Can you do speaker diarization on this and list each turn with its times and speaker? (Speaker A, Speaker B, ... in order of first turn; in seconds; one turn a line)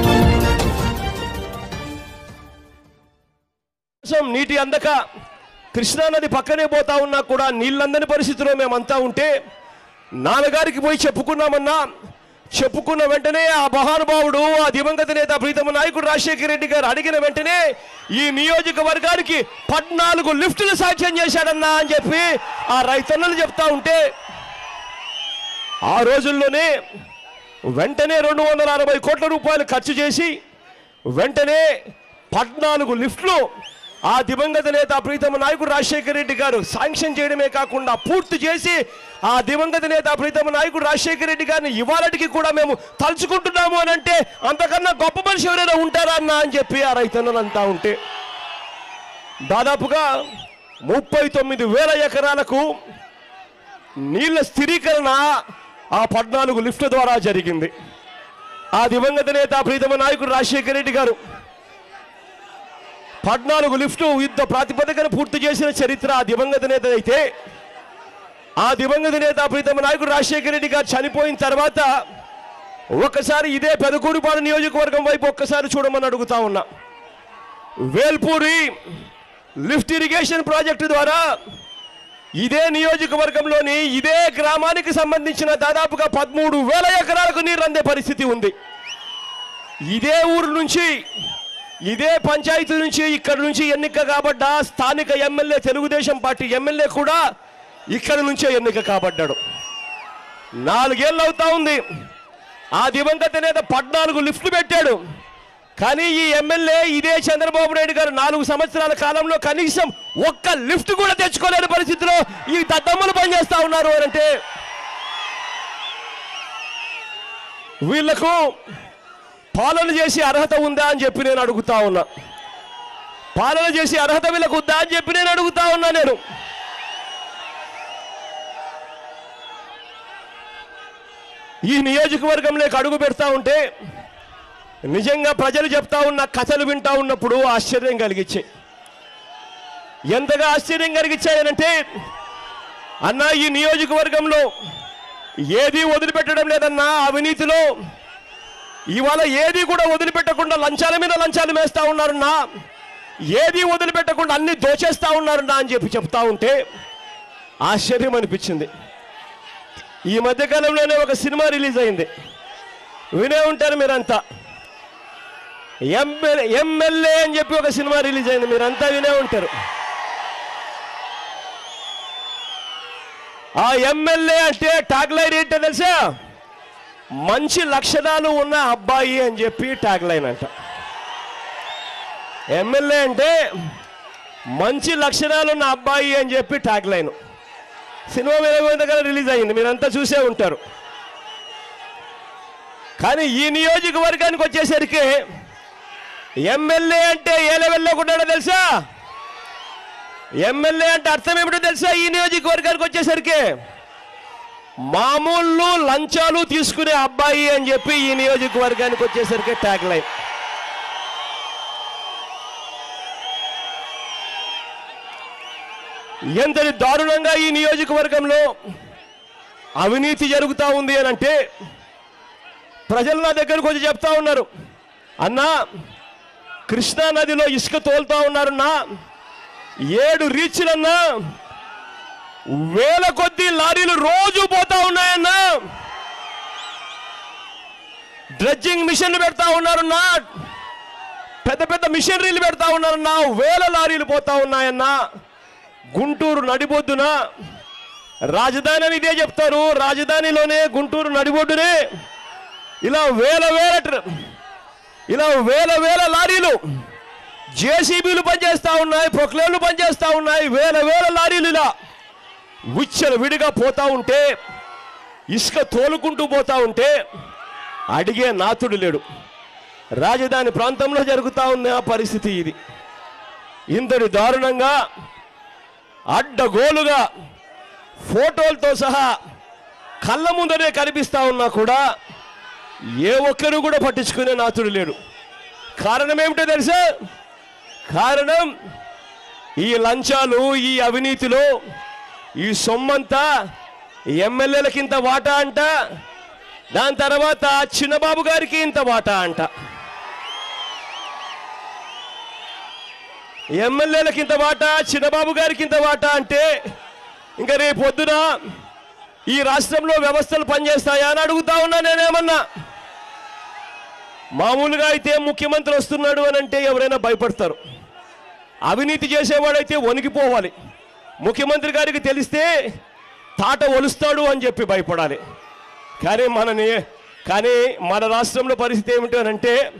Speaker A: 4.0-5.0
Speaker A: 5.7-9.3
Speaker A: 10.2-11.8
Speaker A: 12.5-17.6
Speaker A: 18.1-24.0
Speaker A: 25.9-26.7
Speaker A: 27.8-30.3
Speaker A: 31.1-31.6
Speaker A: 32.3-33.4
Speaker A: 34.1-48.0
Speaker A: 49.5-50.0
Speaker A: 50.9-52.7
Speaker A: 54.1-55.2
Speaker A: 55.9-57.7
Speaker A: 58.8-61.2
Speaker A: 63.2-67.2
Speaker A: 68.6-71.9
Speaker A: 73.0-76.7
Speaker A: 77.9-78.7
Speaker A: 79.6-81.2
Speaker A: 82.4-88.5
Speaker A: 89.9-90.9
Speaker A: 91.9-97.2
Speaker A: 97.9-99.4
Speaker A: 100.6-101.8
Speaker A: 102.8-105.0
Speaker A: 105.8-114.3
Speaker A: 117.9-118.5
Speaker A: 119.5-122.0
Speaker A: 123.3-126.2
Speaker A: 131.7-133.6
Speaker A: 134.9-138.4
Speaker A: 140.1-141.8
Speaker A: 143.0-144.5
Speaker A: 145.5-147.6
Speaker A: 148.9-152.4
Speaker A: 153.3-156.6
Speaker A: 157.6-158.7
Speaker A: 160.1-162.1
Speaker A: 163.2-164.2
Speaker A: 165.9-169.5
Speaker A: 173.6-176.0
Speaker A: 177.2-180.5
Speaker A: 182.5-183.3
Speaker A: 184.6-187.1
Speaker A: 188.1-190.6
Speaker A: 193.0-195.2
Speaker A: 196.5-198.7
Speaker A: 200.4-203.4
Speaker A: 204.9-210.1
Speaker A: 216.4-218.5
Speaker A: 219.8-221.3
Speaker A: 222.9-224.5
Speaker A: 225.2-225.5
Speaker A: 226.7-228.7
Speaker A: 229.9-231.0
Speaker A: 232.6-235.6
Speaker A: 238.4-240.3
Speaker A: 241.4-244.9
Speaker A: 245.9-247.1
Speaker A: 248.3-251.7
Speaker A: 252.8-254.0
Speaker A: 255.1-256.6
Speaker A: 257.6-261.7
Speaker A: 262.7-264.2
Speaker A: 265.3-266.9
Speaker A: 267.9-269.0
Speaker A: 270.0-272.6
Speaker A: 273.7-274.7
Speaker A: 276.1-277.0
Speaker A: 278.0-279.1
Speaker A: 280.0-281.8
Speaker A: 283.0-284.9
Speaker A: 285.8-286.8
Speaker A: 287.9-288.5
Speaker A: 289.6-291.4
Speaker A: 292.4-293.2
Speaker A: 294.2-295.7
Speaker A: 296.7-299.5
Speaker A: 303.6-306.4
Speaker A: 307.4-308.2
Speaker A: 309.3-312.4
Speaker A: 314.4-317.6
Speaker A: 318.7-320.5
Speaker A: 321.2-322.5
Speaker A: 323.4-325.2
Speaker A: 326.0-329.6